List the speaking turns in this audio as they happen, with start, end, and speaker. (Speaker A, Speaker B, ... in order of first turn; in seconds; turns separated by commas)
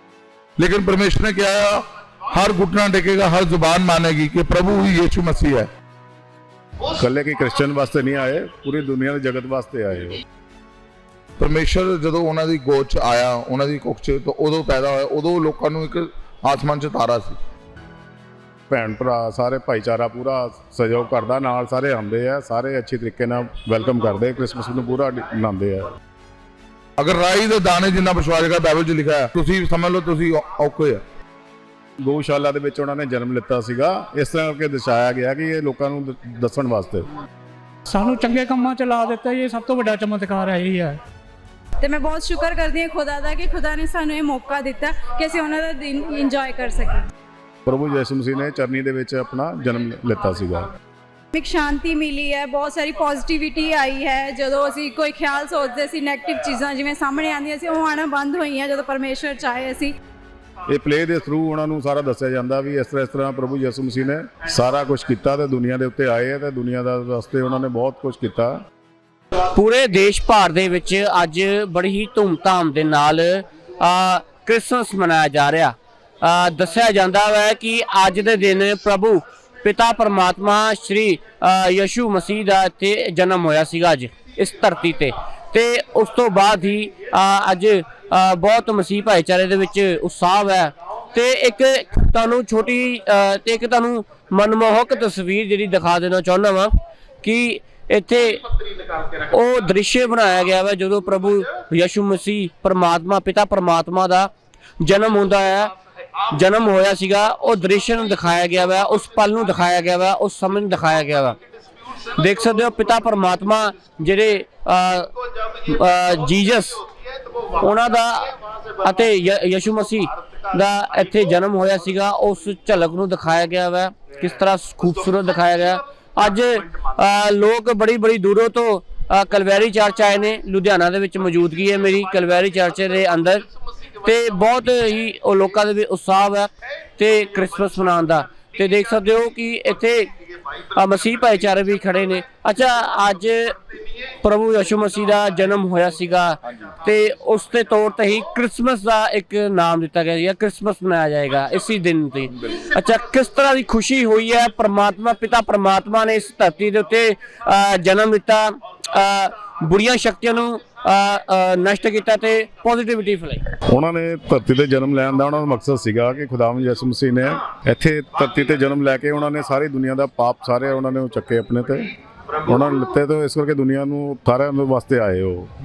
Speaker A: 0.6-5.7, Speaker B: 7.0-10.2, Speaker A: 11.4-17.4, Speaker B: 18.7-25.9, Speaker A: 27.0-31.0, Speaker B: 32.0-37.0, Speaker C: 37.9-41.0, Speaker D: 41.8-47.1, Speaker B: 47.6-50.7, Speaker D: 51.3-59.9, Speaker B: 60.7-68.6, Speaker E: 69.5-98.4, Speaker E: 99.3-104.3, Speaker E: 104.8-105.7, Speaker E: 106.3-111.4, Speaker E: 112.2-115.1, Speaker E: 115.7-116.8, Speaker E: 117.6-133.4, Speaker E: 134.0-140.1, Speaker E: 140.7-143.5, Speaker E: 144.2-163.4, Speaker B: 163.7-171.9, Speaker B: 172.4-175.5